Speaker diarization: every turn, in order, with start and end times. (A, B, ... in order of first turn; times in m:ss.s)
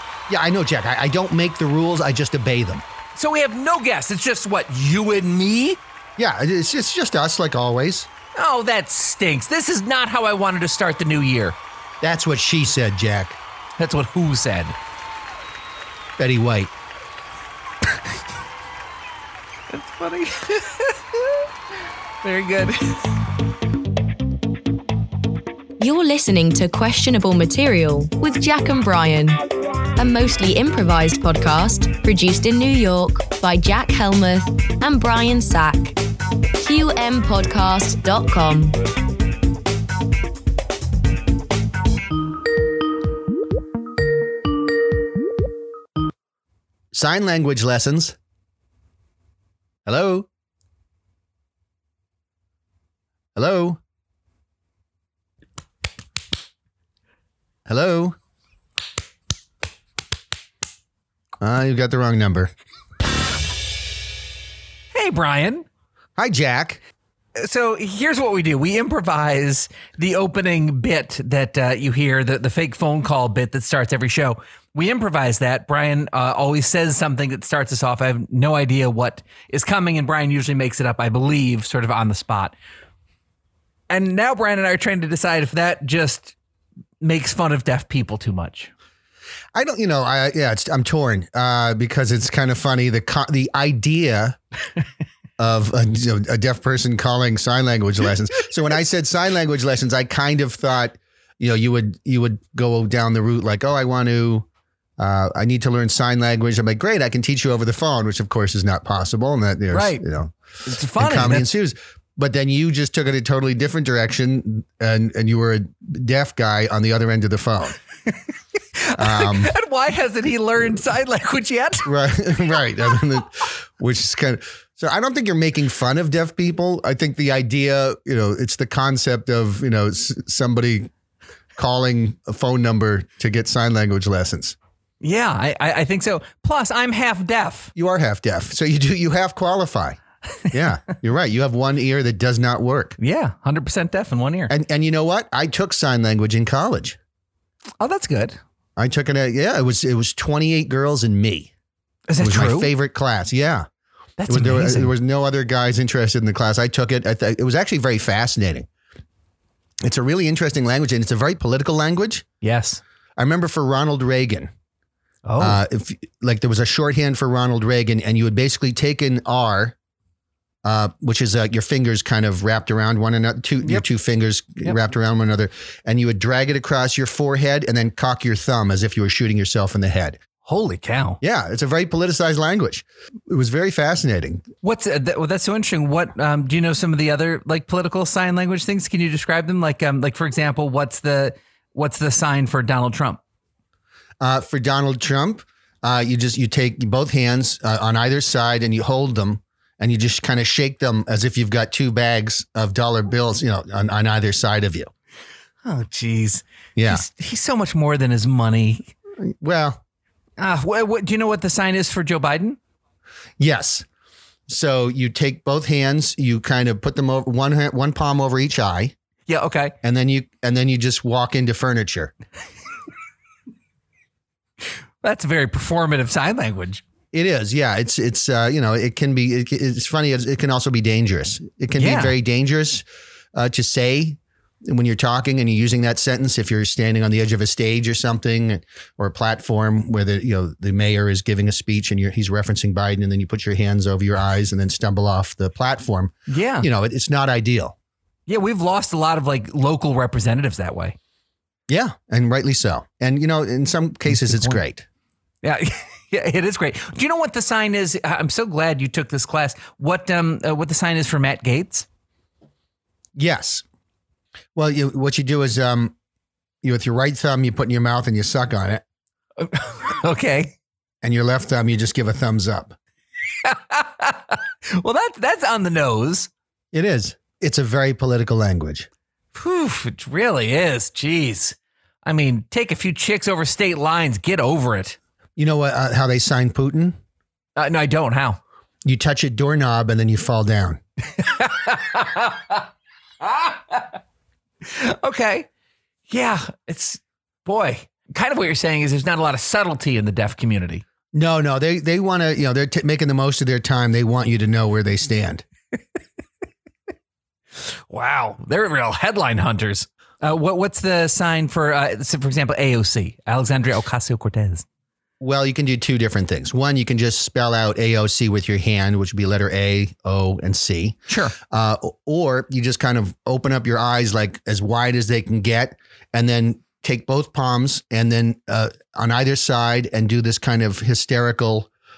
0:00.3-0:02.8 A
0:03.2-0:05.8 B
0:06.2-0:08.1 A
0:08.4-0:11.6 B
0:12.0-0:13.4 A
0:13.8-0:14.8 B
0:16.2-0:16.7 A
0:19.7-0:21.5 B
0:22.2-0:23.2 B
0:25.8-0:29.4 C
0:30.0-0:36.0 C
0:36.6-0:38.8 C
0:46.9-0:48.2 A
0:49.9-0:50.3 A
0:53.4-0:53.8 A
0:57.7-0:58.2 A
1:01.4-1:02.5 A
1:04.9-1:05.7 B
1:06.2-1:06.8 A
1:07.4-1:22.6 B
1:23.9-1:26.4 B
1:27.0-1:28.7 B
1:29.6-1:34.4 A
1:35.4-1:44.5 A
1:45.0-1:50.3 A
1:49.7-1:50.0 B
1:50.6-1:51.5 B
1:51.0-1:57.8 A
1:58.8-2:01.9 B
1:59.0-1:59.5 A
2:01.8-2:10.9 A
2:11.6-2:14.6 A
2:15.0-2:17.7 B
2:17.8-2:20.0 A
2:20.5-2:23.0 A
2:23.0-2:24.5 B
2:24.5-2:27.0 A
2:27.8-2:28.4 B
2:28.8-2:31.5 A
2:32.1-2:32.7 B
2:32.2-2:33.7 A
2:34.2-2:34.9 B
2:34.3-2:38.7 A
2:39.8-2:42.3 A
2:42.4-2:42.8 B
2:43.2-2:44.5 A
2:45.3-2:45.6 B
2:45.4-2:49.8 A
2:50.6-3:00.2 A
3:00.4-3:01.2 B
3:01.2-3:04.4 A
3:04.6-3:13.2 B
3:14.2-3:24.9 A
3:25.6-3:28.9 B
3:26.8-3:27.0 A
3:29.2-3:29.8 A
3:30.4-3:32.6 B
3:33.4-3:33.8 A
3:34.5-3:39.0 A
3:39.3-3:39.8 B
3:39.8-3:42.1 A
3:45.0-3:46.8 B
3:47.1-4:07.8 A
3:51.8-3:52.2 B
4:06.3-4:06.7 B
4:08.3-4:11.0 B
4:11.7-4:14.9 A
4:14.1-4:14.6 B
4:15.4-4:21.9 B
4:23.2-4:23.6 A
4:24.6-4:26.0 A
4:26.6-4:28.8 A
4:29.4-4:30.6 B
4:31.0-4:32.8 A
4:33.4-4:36.3 B
4:36.7-4:38.9 A
4:39.3-4:45.0 B
4:45.4-4:47.0 A
4:47.6-4:48.4 B
4:48.8-4:50.8 A
4:51.2-4:52.7 B
4:53.2-4:54.0 B
4:54.6-4:55.5 B
4:56.1-5:00.8 B
5:01.1-5:05.4 A
5:07.6-5:14.7 B
5:15.2-5:31.7 A
5:21.1-5:21.4 B